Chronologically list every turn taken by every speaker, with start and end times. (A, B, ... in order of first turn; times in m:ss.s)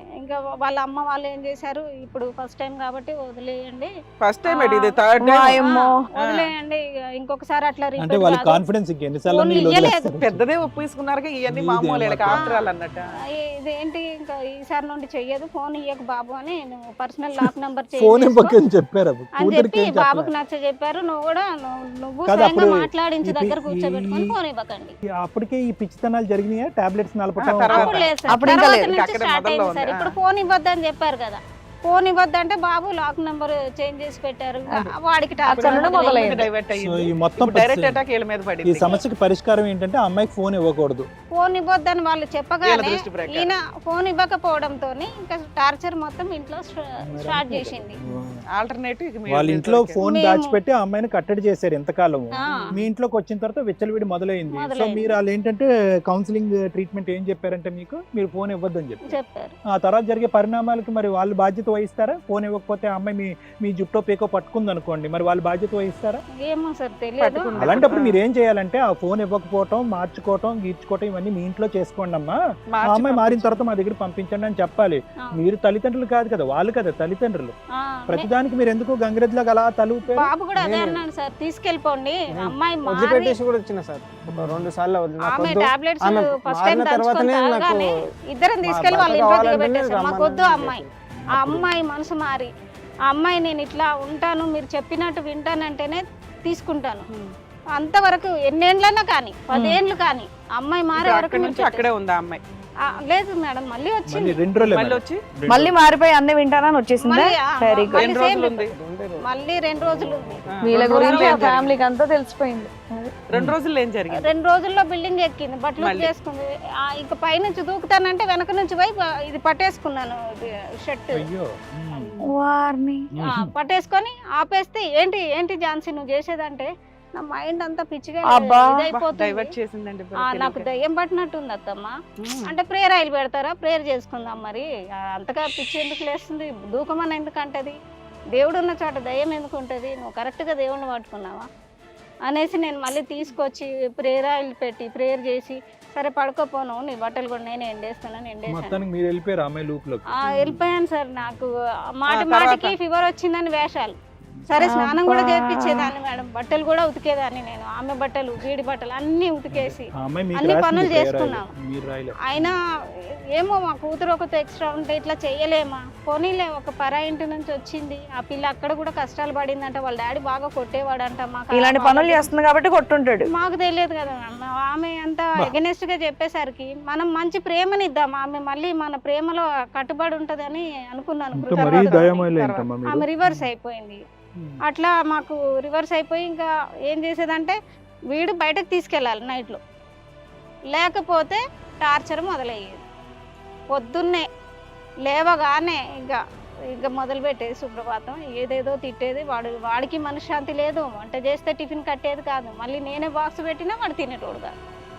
0:00.2-0:03.9 A
0:04.2-0:05.6 B
0:04.5-0:04.9 A
0:05.2-0:06.0 C
0:05.6-0:08.6 A
0:06.2-0:06.5 B
0:08.0-0:10.4 D
0:09.3-0:10.1 A
0:10.2-0:13.2 B
0:11.5-0:12.6 D
0:12.3-0:12.6 A
0:13.3-0:18.6 A
0:17.4-0:20.3 D
0:19.4-0:25.0 A
0:22.3-0:24.3 D
0:25.2-0:28.5 D
0:27.4-0:30.2 B
0:27.7-0:36.4 A
0:28.3-0:28.9 C
0:35.5-0:36.5 C
0:35.6-0:39.0 B
0:36.8-0:38.0 D
0:38.6-0:41.1 D
0:41.3-0:48.0 A
0:42.6-0:43.5 B
0:47.1-0:48.4 D
0:48.5-0:50.0 B
0:49.3-0:59.2 D
0:50.0-0:50.6 A
0:52.4-0:52.7 A
0:52.5-0:52.7 B
0:54.5-0:55.2 A
0:59.1-0:59.6 A
0:59.7-1:06.2 D
1:06.4-1:07.9 A
1:07.2-1:08.2 B
1:07.6-1:17.5 D
1:12.7-1:13.6 B
1:17.8-1:18.3 A
1:18.1-1:20.3 D
1:20.1-1:23.4 A
1:20.6-1:21.0 E
1:22.3-1:27.9 E
1:24.3-1:24.7 D
1:25.2-1:32.5 A
1:28.6-1:30.9 E
1:31.2-1:31.7 D
1:33.1-1:37.1 A
1:37.8-1:41.9 A
1:39.5-1:39.8 C
1:41.0-1:42.4 B
1:42.9-1:44.4 A
1:44.1-1:45.8 D
1:44.6-1:45.2 B
1:45.5-1:48.1 C
1:47.0-1:48.7 A
1:48.0-1:48.7 B
1:48.7-1:51.4 E
1:49.2-1:51.6 A
1:50.5-1:51.8 B
1:50.6-1:53.2 C
1:53.3-1:54.3 B
1:54.2-2:01.2 A
1:55.8-1:56.1 B
2:01.2-2:02.1 D
2:02.2-2:03.1 C
2:03.2-2:03.5 D
2:03.2-2:09.6 A
2:08.2-2:08.9 C
2:08.9-2:10.6 B
2:10.2-2:11.9 A
2:12.2-2:12.5 B
2:12.4-2:17.8 A
2:18.3-2:21.5 A
2:22.3-2:28.8 A
2:28.5-2:30.0 D
2:30.2-2:31.5 A
2:32.0-2:34.0 A
2:32.1-2:32.7 B
2:34.5-2:41.5 A
2:34.6-2:35.9 C
2:39.5-2:42.6 D
2:42.3-2:42.6 A
2:43.4-2:52.3 A
2:51.5-2:53.3 C
2:53.3-3:02.2 A
3:01.4-3:03.5 D
3:01.6-3:02.7 B
3:02.8-3:04.0 A
3:04.7-3:07.6 A
3:08.1-3:09.6 A
3:10.7-3:12.8 A
3:13.7-3:14.3 A
3:15.1-3:16.2 A
3:16.7-3:24.5 A